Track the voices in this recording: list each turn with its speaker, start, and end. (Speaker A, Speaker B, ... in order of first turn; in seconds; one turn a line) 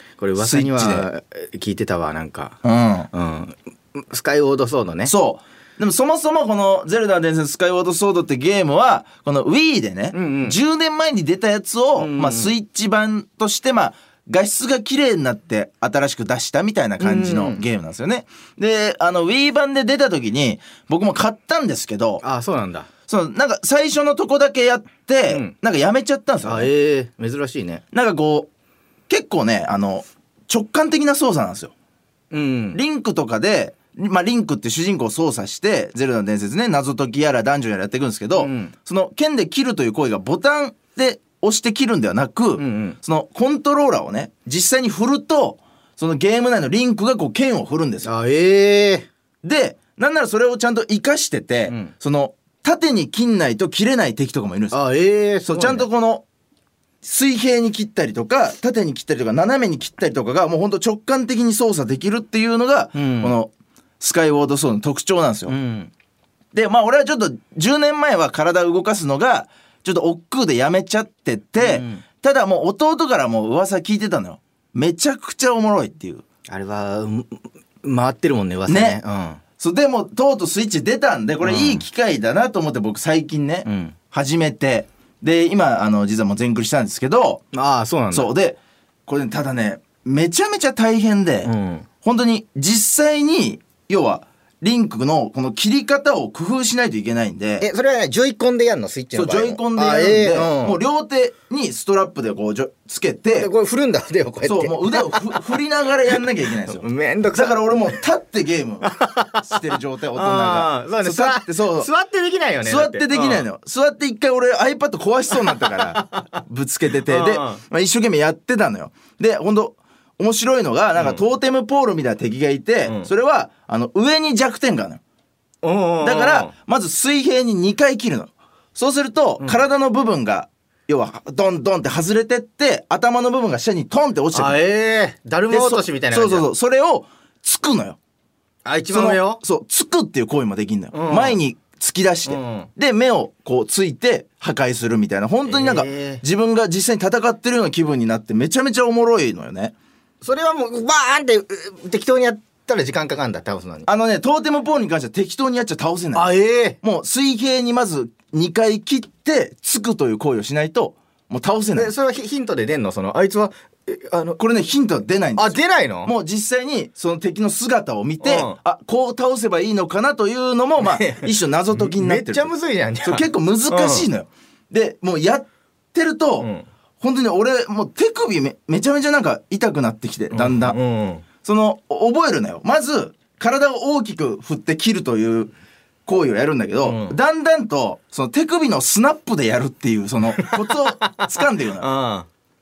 Speaker A: 0.2-2.6
Speaker B: 0.4-1.1
Speaker B: 2.6-3.1
Speaker A: 3.1-5.1
Speaker B: 5.0-22.2
Speaker A: 10.1-10.6
Speaker A: 11.9-12.5
Speaker A: 17.0-17.6
Speaker A: 22.2-22.9
Speaker B: 23.1-26.7
Speaker A: 26.4-27.8
Speaker B: 27.9-28.5
Speaker B: 29.1-31.7
Speaker A: 32.3-32.8
Speaker B: 32.7-48.1
Speaker A: 38.4-38.7
Speaker A: 42.6-43.0
Speaker A: 48.0-49.1
Speaker B: 49.4-54.8
Speaker A: 51.7-51.9
Speaker A: 54.7-55.9
Speaker B: 55.5-56.2
Speaker B: 57.0-65.5
Speaker A: 62.9-63.4
Speaker A: 65.5-65.9
Speaker B: 66.5-76.2
Speaker A: 71.6-72.0
Speaker A: 76.5-79.4
Speaker B: 78.7-79.0
Speaker B: 79.6-87.4
Speaker A: 81.4-81.8
Speaker A: 83.7-83.9
Speaker A: 87.5-88.3
Speaker B: 88.1-91.5
Speaker A: 91.4-91.8
Speaker B: 92.0-97.7
Speaker A: 97.6-100.8
Speaker B: 99.1-103.5
Speaker A: 103.3-105.5
Speaker B: 104.4-111.9
Speaker A: 106.1-108.0
Speaker A: 108.8-109.4
Speaker A: 110.1-113.4
Speaker B: 112.6-125.0
Speaker A: 115.3-116.3
Speaker A: 117.1-117.6
Speaker A: 121.0-121.2
Speaker A: 125.6-126.5
Speaker B: 126.0-134.6
Speaker A: 134.3-136.5
Speaker B: 135.5-138.0
Speaker A: 138.6-139.4
Speaker B: 138.9-149.7
Speaker A: 140.9-141.4
Speaker A: 142.2-142.7
Speaker A: 145.4-146.2
Speaker A: 150.2-153.9
Speaker B: 153.8-161.9
Speaker A: 156.1-156.8
Speaker A: 161.7-164.4
Speaker B: 164.4-172.5
Speaker A: 165.4-166.1
Speaker A: 168.2-168.6
Speaker A: 170.8-174.1
Speaker B: 173.0-176.5
Speaker A: 176.4-176.7
Speaker B: 177.0-180.8
Speaker A: 180.3-181.2
Speaker B: 181.4-185.5
Speaker B: 186.1-191.9
Speaker A: 186.8-187.2
Speaker A: 190.3-192.3